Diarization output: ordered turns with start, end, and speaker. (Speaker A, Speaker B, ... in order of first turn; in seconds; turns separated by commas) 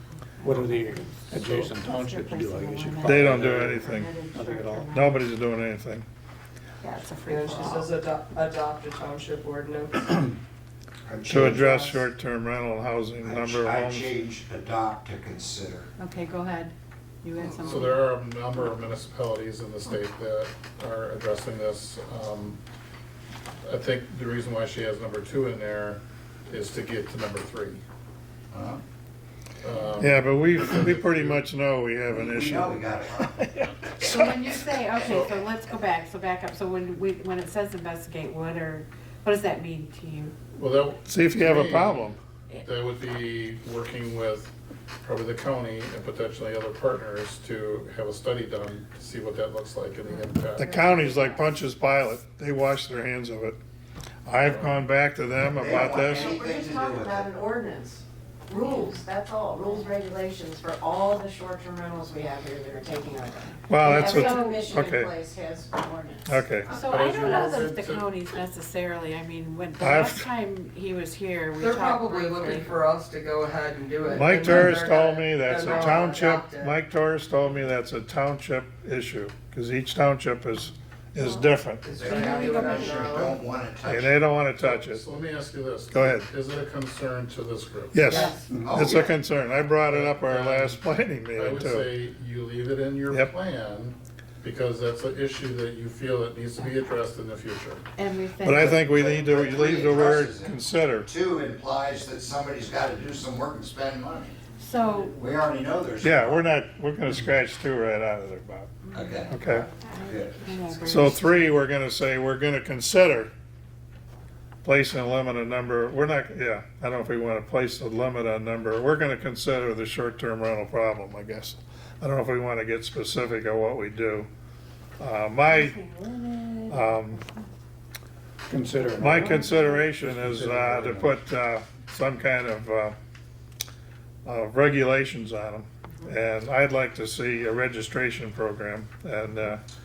Speaker A: 0.4-5.2, Speaker B: 0.4-5.0, Speaker C: 1.4-1.8, Speaker C: 3.0-4.2, Speaker C: 4.9-6.1, Speaker A: 6.8-7.9, Speaker D: 7.2-10.3, Speaker E: 11.1-11.6, Speaker C: 11.3-14.1, Speaker D: 11.4-12.0, Speaker E: 13.2-15.9, Speaker A: 16.0-18.0, Speaker F: 17.6-22.6, Speaker F: 23.6-27.8, Speaker E: 28.5-28.8, Speaker F: 29.6-31.4, Speaker C: 30.0-34.2, Speaker E: 32.1-33.4, Speaker A: 34.0-40.4, Speaker E: 34.1-34.4, Speaker F: 40.5-44.5, Speaker C: 41.1-42.2, Speaker F: 45.0-51.1, Speaker C: 50.6-53.6, Speaker C: 54.3-56.4, Speaker E: 55.5-57.4, Speaker G: 55.8-66.4, Speaker A: 58.6-59.0, Speaker C: 63.7-65.1, Speaker A: 63.9-64.6, Speaker C: 66.3-66.8, Speaker F: 66.7-68.1, Speaker A: 66.7-72.7, Speaker C: 69.8-70.3, Speaker D: 71.6-76.8, Speaker C: 74.1-82.0, Speaker A: 74.2-74.7, Speaker A: 75.7-76.0, Speaker D: 81.8-83.4, Speaker E: 82.0-84.2, Speaker A: 82.0-83.2, Speaker C: 83.8-85.0, Speaker F: 84.6-88.3, Speaker C: 85.9-86.3, Speaker C: 87.9-91.9, Speaker D: 88.1-88.4, Speaker A: 88.1-88.5, Speaker B: 88.5-88.9, Speaker E: 88.6-89.1, Speaker F: 89.9-97.8, Speaker A: 98.0-99.0, Speaker C: 98.4-101.1, Speaker E: 98.6-104.4, Speaker A: 104.6-105.2, Speaker E: 105.1-106.5, Speaker C: 106.0-108.7, Speaker E: 108.9-111.2, Speaker C: 109.3-109.7, Speaker A: 109.8-111.5, Speaker C: 110.8-113.3, Speaker C: 114.6-124.3, Speaker C: 125.0-125.8, Speaker A: 125.5-127.1, Speaker C: 126.7-127.2, Speaker B: 128.5-131.2, Speaker C: 129.0-133.0, Speaker A: 129.1-129.4, Speaker C: 134.2-139.6